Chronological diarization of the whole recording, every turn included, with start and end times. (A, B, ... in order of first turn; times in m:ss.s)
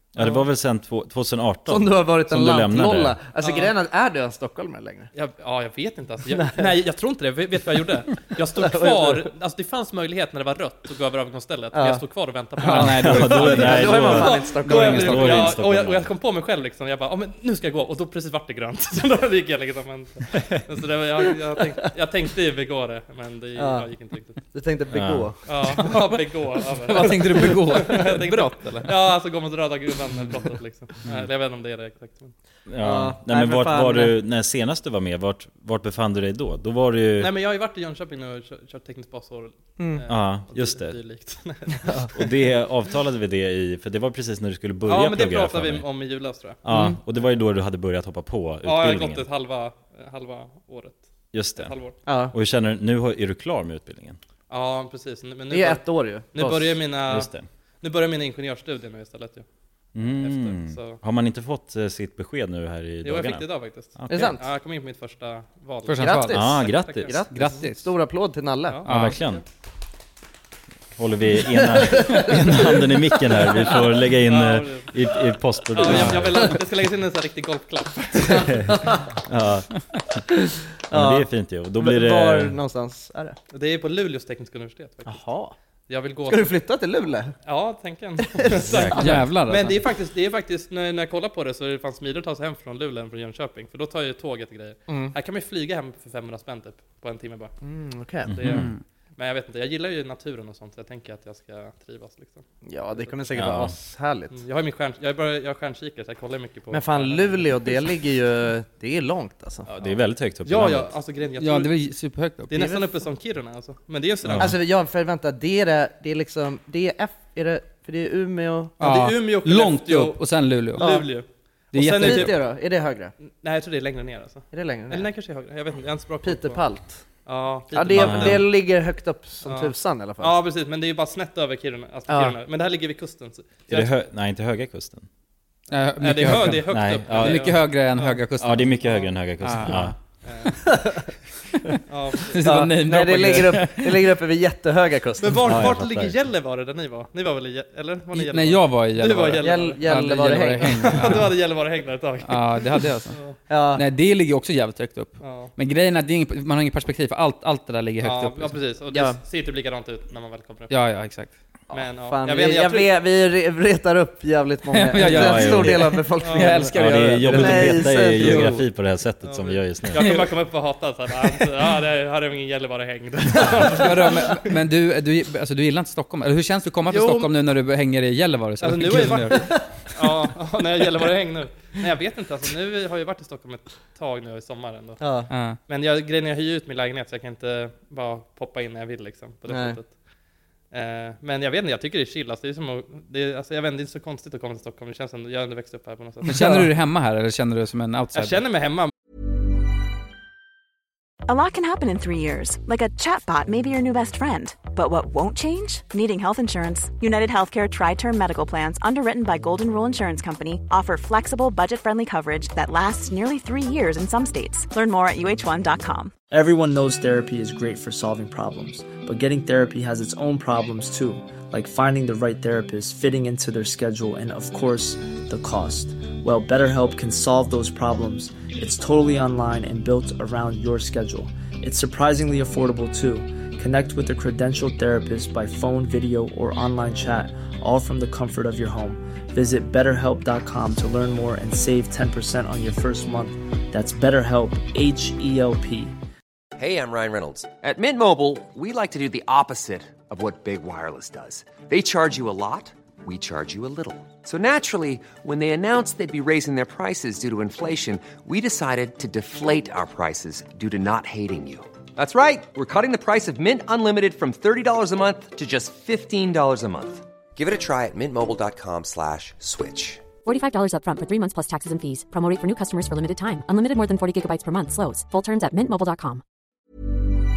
0:00.2-0:03.2 A
0:01.7-0:05.1 B
0:03.4-0:03.7 C
0:05.1-0:24.5 C
0:06.4-0:06.7 B
0:08.6-0:09.3 B
0:11.7-0:12.0 B
0:12.6-0:12.9 B
0:12.7-0:15.5 D
0:12.7-0:16.1 A
0:13.6-0:15.3 B
0:23.6-0:23.9 B
0:24.5-0:26.0 B
0:24.9-0:25.3 A
0:25.5-0:32.3 C
0:26.9-0:28.9 D
0:27.1-0:27.6 B
0:32.7-0:37.3 A
0:32.8-0:34.1 B
0:37.2-0:42.1 C
0:39.8-0:40.0 B
0:40.1-0:41.0 A
0:42.2-0:45.8 A
0:44.9-0:46.6 C
0:46.6-0:49.3 A
0:48.6-0:52.0 C
0:51.3-0:51.7 A
0:52.1-0:52.3 B
0:52.3-0:54.2 A
0:54.5-0:57.3 C
0:55.5-0:56.8 B
0:57.1-0:57.5 A
0:57.8-0:59.4 C
1:00.0-1:03.4 A
1:00.0-1:01.0 C
1:03.0-1:07.6 C
1:04.0-1:04.4 A
1:04.1-1:04.4 B
1:05.9-1:06.4 D
1:06.0-1:08.8 B
1:06.3-1:07.2 A
1:07.3-1:07.9 D
1:08.7-1:09.4 C
1:08.9-1:09.2 D
1:08.9-1:09.4 A
1:11.0-1:16.6 A
1:11.6-1:13.5 B
1:14.3-1:14.9 C
1:15.7-1:18.6 C
1:16.0-1:16.6 B
1:18.2-1:19.0 B
1:18.3-1:19.7 A
1:20.4-1:21.3 B
1:20.9-1:22.6 A
1:21.8-1:23.4 B
1:23.5-1:25.2 C
1:25.0-1:25.6 B
1:25.9-1:26.6 C
1:26.3-1:27.3 B
1:27.5-1:37.5 C
1:28.2-1:29.0 B
1:28.7-1:29.2 A
1:29.0-1:29.8 D
1:34.9-1:35.1 B
1:37.6-1:38.6 B
1:38.3-1:38.7 A
1:38.5-1:38.8 D
1:39.2-1:42.5 C
1:42.6-1:44.4 B
1:43.4-1:43.7 A
1:44.3-1:47.8 C
1:46.7-1:49.7 B
1:49.7-1:50.9 A
1:50.4-1:51.7 C
1:51.4-1:52.8 D
1:52.5-1:54.6 C
1:54.2-1:54.5 A
1:54.4-1:58.8 B
1:58.8-2:00.2 C
1:58.8-2:00.9 D
2:00.8-2:02.4 C
2:00.8-2:01.1 B
2:01.7-2:02.3 D
2:01.9-2:03.1 B
2:03.4-2:06.6 C
2:04.5-2:05.1 B
2:06.2-2:07.0 B
2:07.2-2:08.5 C
2:07.7-2:10.4 B
2:07.9-2:08.4 A
2:09.5-2:13.9 C
2:12.1-2:12.4 B
2:13.7-2:15.1 A
2:15.7-2:18.8 D
2:16.0-2:18.2 C
2:16.7-2:17.6 A
2:18.4-2:20.0 A
2:19.4-2:19.9 D
2:20.2-2:20.6 C
2:20.6-2:21.0 B
2:21.9-2:22.4 C
2:22.3-2:24.0 D
2:22.4-2:25.6 B
2:25.2-2:29.8 C
2:25.5-2:26.2 A
2:28.1-2:31.3 D
2:29.4-2:31.2 B
2:30.7-2:33.4 C
2:32.2-2:33.2 D
2:33.5-2:33.8 B
2:33.7-2:38.6 D
2:35.2-2:35.5 C
2:38.0-2:40.7 C
2:38.9-2:39.2 B
2:40.7-2:41.3 D
2:41.7-2:42.9 C
2:41.7-2:48.5 B
2:44.7-2:48.6 D
2:45.0-2:46.1 A
2:46.2-2:46.5 C
2:46.7-2:50.1 A
2:49.2-2:54.4 C
2:50.0-2:50.3 D
2:53.6-2:59.4 D
2:56.9-2:57.3 C
2:58.6-3:05.0 C
2:59.4-2:59.6 B
3:05.0-3:05.3 B
3:05.3-3:05.6 D
3:05.7-3:09.9 C
3:09.5-3:09.8 B
3:10.7-3:16.6 C
3:16.3-3:18.4 D
3:16.3-3:16.7 B
3:18.2-3:18.9 C
3:21.3-3:36.1 E
3:36.3-4:05.9 F
4:06.6-4:30.0 G
4:30.2-4:36.2 H